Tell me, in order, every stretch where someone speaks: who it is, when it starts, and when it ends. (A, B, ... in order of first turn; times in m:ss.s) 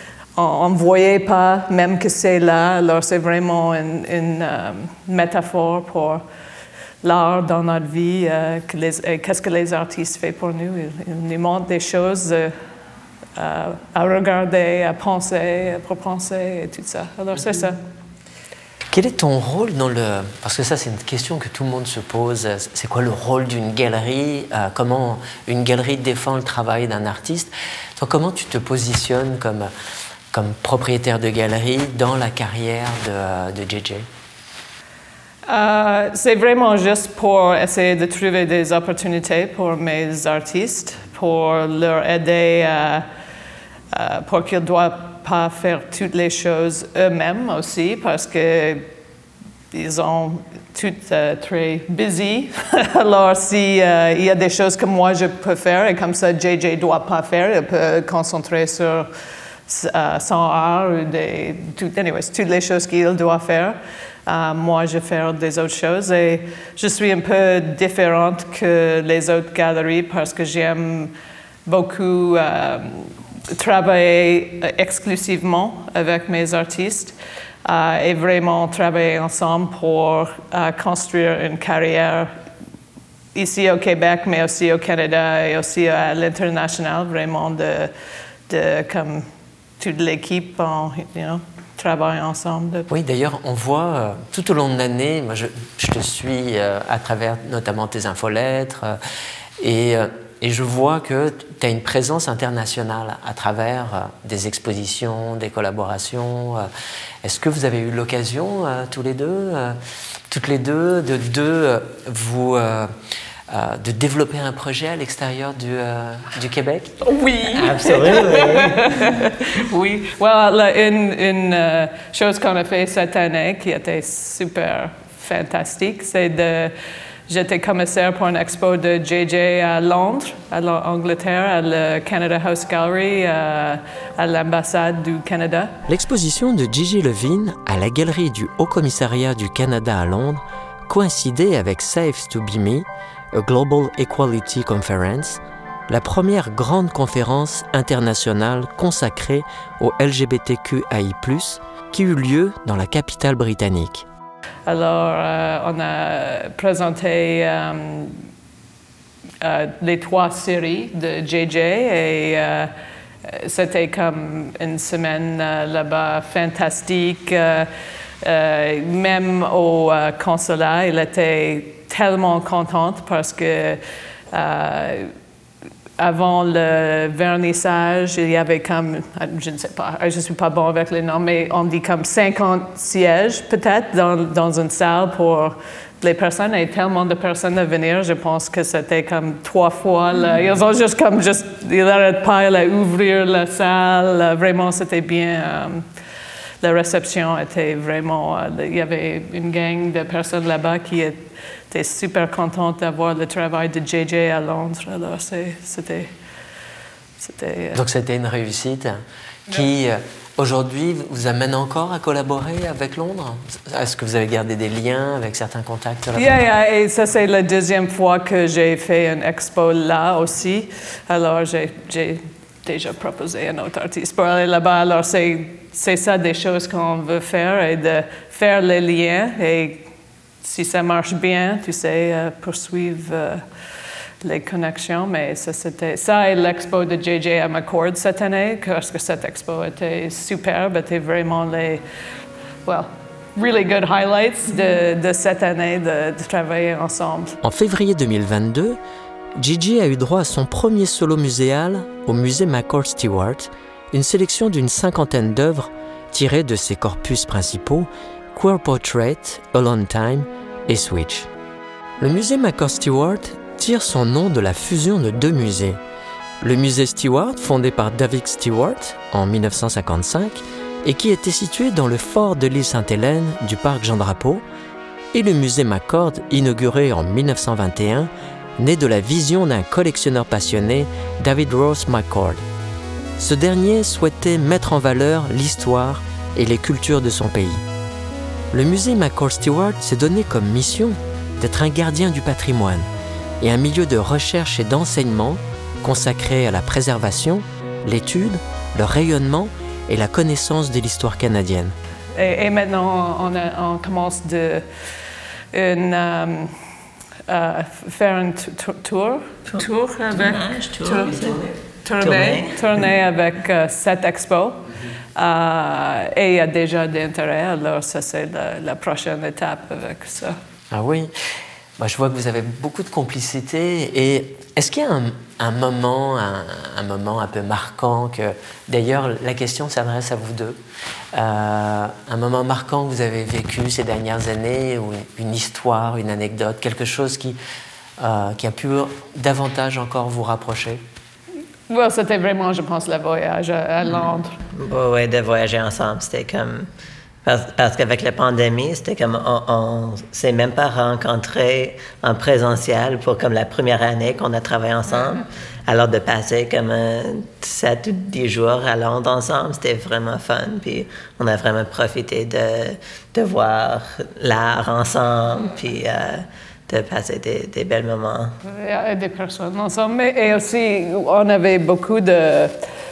0:00.4-0:06.2 A
0:07.0-0:12.5 A
0:13.4-0:17.8 A
0:18.9-0:29.7 B
0:30.3-0:34.1 B
0:35.4-0:43.0 A
0:43.9-0:48.9 A
0:49.7-0:59.1 A
0:59.7-1:11.1 A
1:11.6-1:17.1 A
1:17.6-1:22.3 A
1:23.3-1:27.9 A
1:28.5-1:29.3 A
1:29.8-1:32.9 A
1:32.9-1:39.0 B
1:39.6-1:46.7 B
1:47.2-1:49.8 B
1:50.3-1:52.9 B
1:53.5-1:57.0 B
1:57.0-2:06.7 A
1:57.5-1:59.0 C
2:07.3-2:15.8 A
2:15.9-2:34.0 B
2:34.6-2:38.2 A
2:39.4-2:42.7 A
2:43.2-2:47.7 A
2:48.2-2:55.1 A
2:56.0-3:15.9 A
3:16.6-3:26.1 A
3:27.2-3:27.8 A
3:27.7-3:36.4 B
3:36.2-3:49.9 A
3:50.4-3:53.4 A
3:54.2-4:01.8 A
4:02.6-4:07.4 A
4:07.4-4:08.8 B
4:09.4-4:21.3 B
4:22.0-4:25.8 B
4:26.4-4:34.4 B
4:35.1-4:42.4 B
4:43.2-4:47.6 B
4:48.5-4:52.9 B
4:53.4-5:01.7 B
5:02.1-5:04.6 A
5:05.5-5:06.5 A
5:07.3-5:20.4 A
5:09.5-5:12.7 C
5:20.7-5:30.6 B
5:31.1-5:37.4 B
5:38.0-5:40.8 B
5:41.7-5:44.4 A
5:44.5-5:46.7 C
5:47.2-6:08.4 C
6:08.4-6:12.6 A